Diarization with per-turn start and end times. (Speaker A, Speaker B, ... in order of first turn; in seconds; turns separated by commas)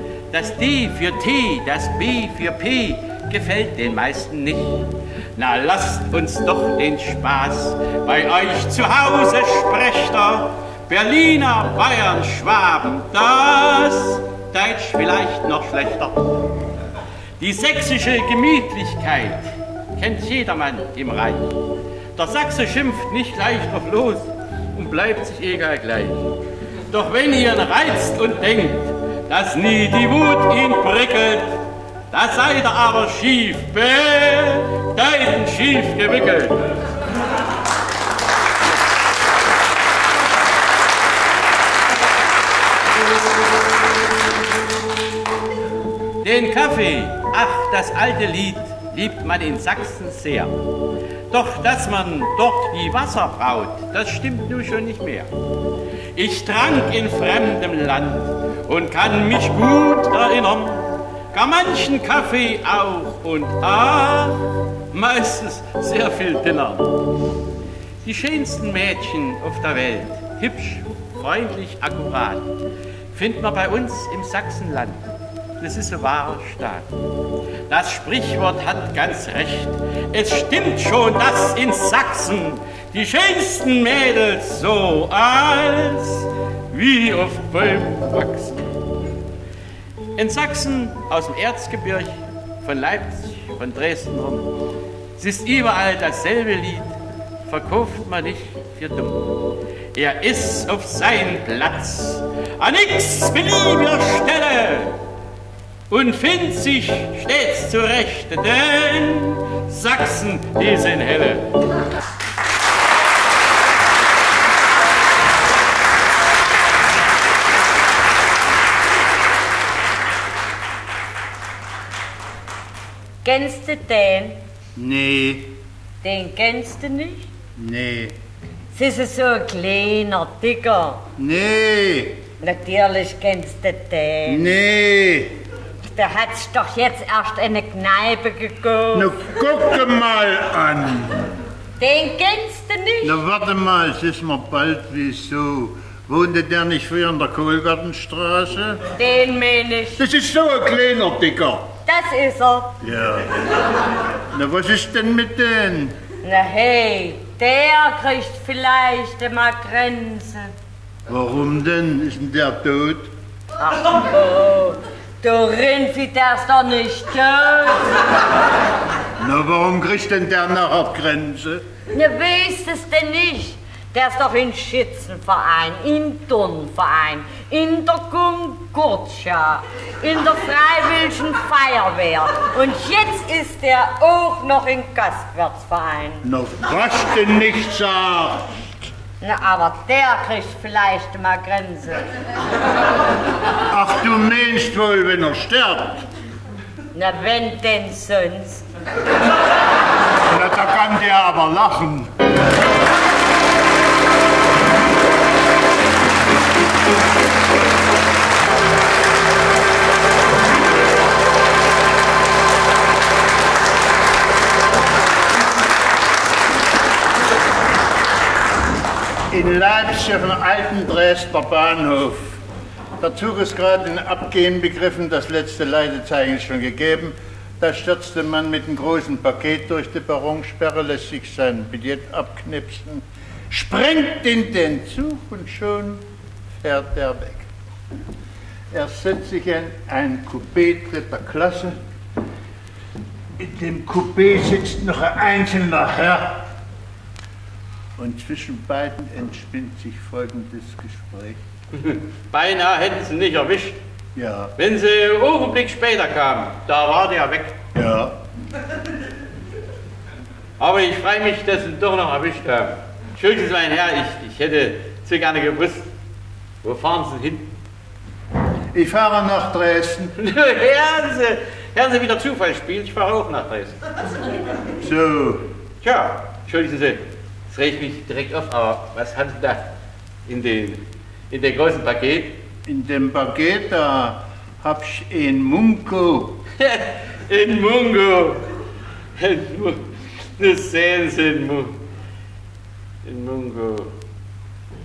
Speaker A: 0.3-16.4, Speaker A: 17.4-21.5, Speaker A: 22.1-26.3, Speaker A: 26.9-36.7, Speaker A: 46.2-50.6, Speaker A: 51.3-55.3, Speaker A: 56.1-64.4, Speaker A: 64.9-66.9, Speaker A: 68.0-72.5, Speaker A: 73.1-75.0, Speaker A: 75.6-76.9, Speaker A: 77.7-88.7, Speaker A: 90.2-94.5, Speaker A: 95.2-99.3, Speaker A: 99.9-105.0, Speaker A: 105.9-111.5, Speaker B: 123.2-124.4, Speaker C: 124.8-125.6, Speaker B: 126.0-127.3, Speaker C: 127.6-128.2, Speaker B: 128.7-131.0, Speaker C: 131.2-132.2, Speaker B: 132.4-134.6, Speaker C: 134.3-135.4, Speaker B: 135.8-139.3, Speaker C: 138.9-141.4, Speaker B: 141.8-143.2, Speaker C: 143.0-148.9, Speaker B: 149.0-150.0, Speaker C: 150.0-151.7, Speaker B: 151.9-152.8, Speaker C: 152.8-153.3, Speaker C: 154.3-156.0, Speaker B: 156.2-160.5, Speaker C: 161.1-163.1, Speaker B: 163.6-168.0, Speaker C: 169.2-171.6, Speaker B: 171.9-186.3, Speaker C: 186.2-188.9, Speaker B: 189.2-192.1, Speaker C: 193.7-196.1, Speaker B: 196.9-198.7, Speaker C: 200.3-202.1, Speaker C: 219.3-222.4, Speaker C: 223.0-237.5, Speaker C: 238.7-241.8, Speaker C: 243.4-246.5, Speaker C: 248.0-251.4, Speaker A: 251.7-253.8, Speaker C: 254.2-254.5, Speaker A: 254.6-257.6, Speaker C: 257.8-258.2, Speaker A: 260.6-265.9, Speaker A: 266.6-267.5, Speaker C: 268.7-270.1, Speaker A: 270.2-273.8, Speaker C: 274.8-275.5, Speaker A: 275.8-279.7, Speaker A: 280.3-282.4, Speaker C: 282.7-286.4, Speaker A: 286.6-288.5, Speaker A: 289.2-291.8, Speaker A: 293.0-293.9